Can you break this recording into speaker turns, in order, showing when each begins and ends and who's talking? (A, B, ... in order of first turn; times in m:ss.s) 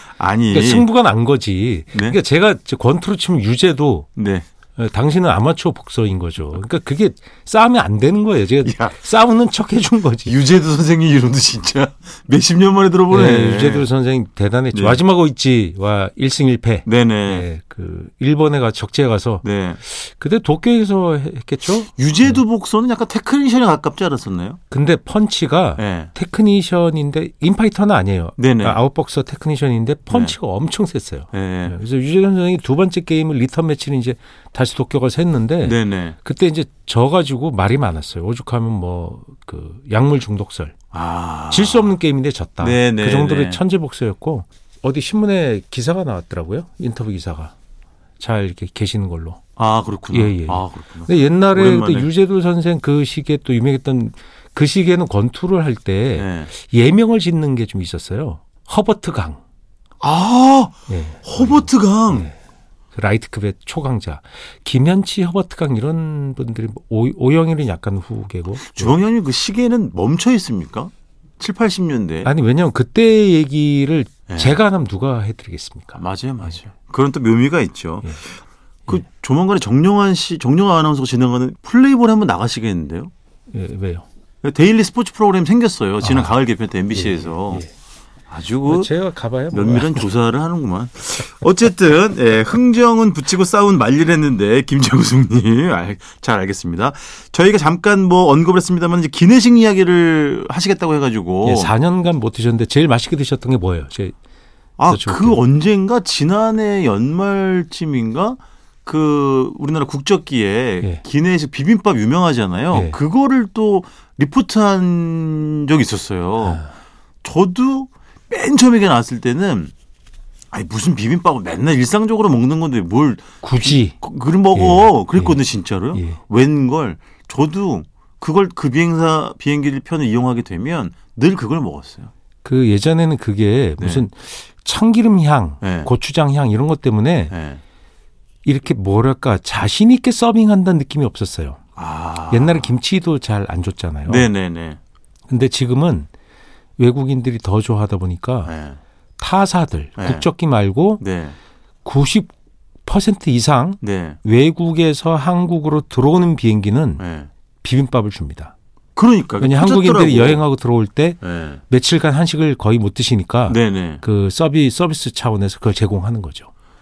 0:00.2-0:00.9 A
0:00.5-0:04.1 B
0:01.9-0:02.2 A
0:04.2-0:04.4 A
0:04.8-0:10.4 B
0:08.6-0:09.0 A
0:10.3-0:13.9 A
0:13.1-0:22.4 B
0:14.7-0:15.0 A
0:16.8-0:17.5 A
0:19.4-0:19.8 A
0:21.8-0:24.6 A
0:24.7-0:40.8 B
0:25.8-0:26.1 A
0:28.4-0:28.8 A
0:30.1-0:30.4 A
0:31.3-0:31.8 A
0:35.6-0:36.2 A
0:40.9-0:42.0 A
0:41.5-0:47.5 B
0:42.6-0:43.6 A
0:48.2-0:49.4 B
0:49.6-0:52.1 A
0:50.1-0:59.4 B
0:56.2-0:56.5 A
1:00.0-1:02.3 A
1:00.9-1:02.4 B
1:02.9-1:09.0 B
1:08.6-1:12.3 A
1:12.2-1:16.0 B
1:14.3-1:14.6 A
1:16.0-1:23.1 A
1:23.5-1:24.0 B
1:24.4-1:27.6 A
1:26.0-1:26.3 B
1:26.9-1:27.7 B
1:28.3-1:28.9 A
1:28.6-1:30.1 B
1:29.5-1:41.7 A
1:41.4-1:44.1 B
1:44.8-1:56.6 A
1:44.9-1:45.4 B
1:52.7-1:53.0 B
1:56.4-1:56.7 B
1:57.2-1:59.7 A
2:00.5-2:12.1 A
2:03.4-2:04.0 B
2:04.5-2:05.4 B
2:05.9-2:06.2 B
2:12.4-2:17.3 B
2:13.8-2:14.0 A
2:15.6-2:15.9 A
2:17.3-2:17.6 A
2:18.4-2:21.6 B
2:21.8-2:22.7 A
2:22.3-2:24.3 B
2:24.0-2:24.8 A
2:25.3-2:26.1 B
2:26.8-2:28.5 B
2:28.4-2:28.8 A
2:29.2-2:31.0 B
2:30.0-2:30.3 A
2:31.0-2:31.4 A
2:31.8-2:32.3 B
2:32.8-2:37.0 B
2:33.8-2:34.2 A
2:37.0-2:37.3 A
2:37.6-2:38.5 B
2:39.0-2:40.4 A
2:39.4-2:46.5 B
2:41.2-2:41.6 A
2:43.5-2:44.0 A